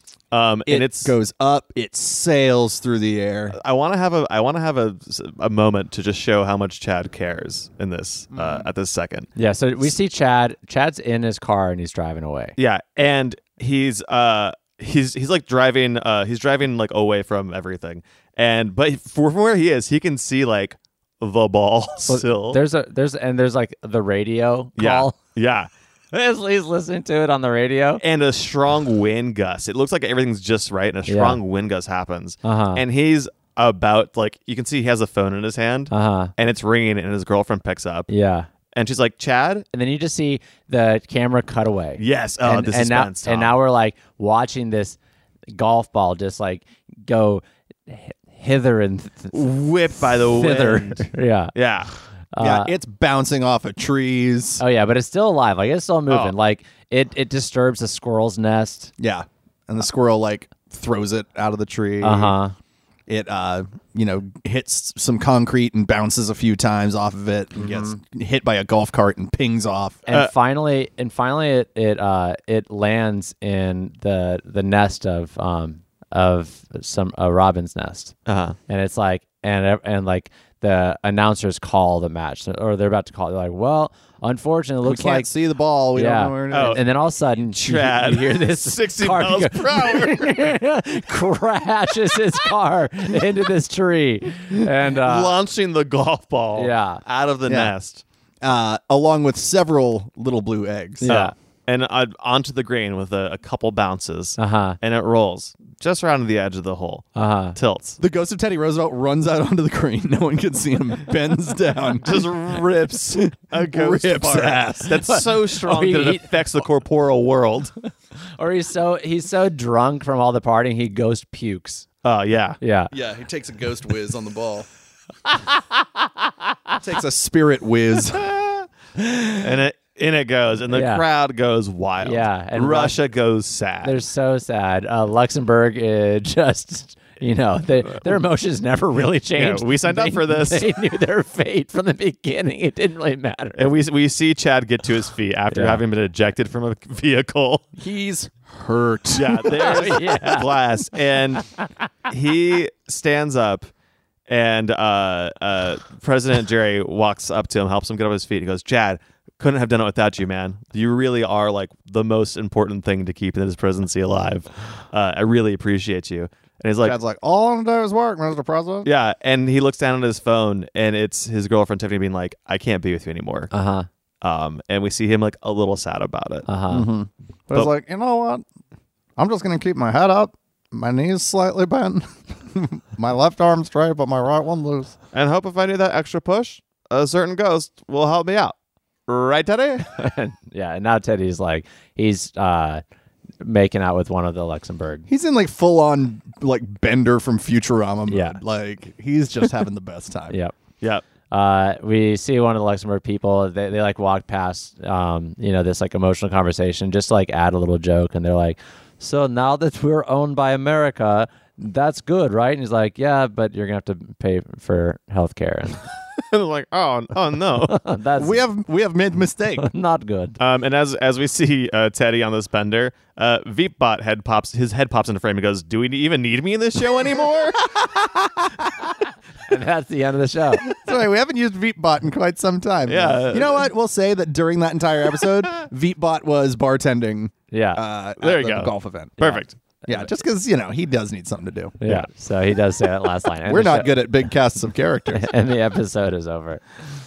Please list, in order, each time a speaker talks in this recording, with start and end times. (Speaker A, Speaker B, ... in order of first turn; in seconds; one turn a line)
Speaker A: 0.3-1.1
Speaker B: 0.7-3.5
Speaker A: 3.5-9.3
Speaker B: 8.3-8.7
Speaker C: 9.3-12.6
Speaker A: 12.6-22.6
Speaker C: 22.1-25.2
Speaker A: 24.8-25.7
Speaker C: 26.1-28.0
Speaker A: 28.0-38.1
Speaker C: 31.1-31.4
Speaker C: 32.4-32.8
Speaker C: 35.9-36.3
Speaker C: 38.1-38.5
Speaker A: 38.7-39.6
Speaker C: 39.7-45.0
Speaker A: 42.0-43.6
Speaker C: 45.5-49.3
Speaker A: 49.3-51.9
Speaker C: 50.3-51.5
Speaker C: 52.3-52.7
Speaker B: 52.4-54.6
Speaker C: 54.6-58.9
Speaker A: 56.1-56.3
Speaker B: 59.0-62.3
Speaker C: 62.0-62.5
Speaker B: 63.1-70.0
Speaker C: 67.5-68.0
Speaker C: 70.1-78.1
Speaker A: 78.3-78.5
Speaker C: 78.7-85.3
Speaker B: 84.8-86.8
Speaker C: 85.9-95.3
Speaker A: 86.5-86.8
Speaker A: 87.5-90.5
Speaker A: 94.9-98.0
Speaker C: 96.5-97.0
Speaker B: 97.5-97.7
Speaker B: 98.4-101.1
Speaker C: 101.0-101.3
Speaker A: 101.1-108.0
Speaker C: 104.4-104.8
Speaker C: 107.1-107.6
Speaker B: 108.0-115.2
Speaker A: 112.0-117.7
Speaker C: 115.0-116.6
Speaker C: 118.4-121.8
Speaker A: 122.0-122.6
Speaker C: 122.6-122.9
Speaker B: 122.9-124.7
Speaker B: 126.8-128.5
Speaker A: 129.0-134.0
Speaker C: 130.7-131.0
Speaker C: 132.0-133.0
Speaker C: 133.8-143.7
Speaker A: 139.3-140.7
Speaker A: 143.6-147.7
Speaker C: 145.5-145.8
Speaker B: 147.8-150.5
Speaker A: 149.1-151.4
Speaker C: 149.4-150.5
Speaker A: 152.1-153.7
Speaker A: 154.3-166.9
Speaker B: 166.8-168.9
Speaker A: 168.8-173.5
Speaker C: 173.5-173.9
Speaker A: 174.2-176.5
Speaker C: 176.4-176.9
Speaker B: 176.7-178.4
Speaker B: 179.2-184.9
Speaker A: 185.1-188.5
Speaker A: 189.1-189.9
Speaker C: 189.9-192.8
Speaker C: 193.4-195.1
Speaker B: 195.1-200.3
Speaker C: 198.1-198.4
Speaker C: 200.3-200.6
Speaker C: 201.3-215.8
Speaker A: 216.2-217.8
Speaker C: 217.7-218.4
Speaker B: 218.2-219.7
Speaker C: 219.6-220.4
Speaker A: 220.4-227.8
Speaker B: 227.6-228.7
Speaker C: 229.5-230.7
Speaker B: 230.6-241.8
Speaker A: 232.9-233.7
Speaker C: 237.5-237.8
Speaker A: 238.2-239.6
Speaker C: 241.8-244.0
Speaker B: 243.4-245.3
Speaker C: 245.1-246.6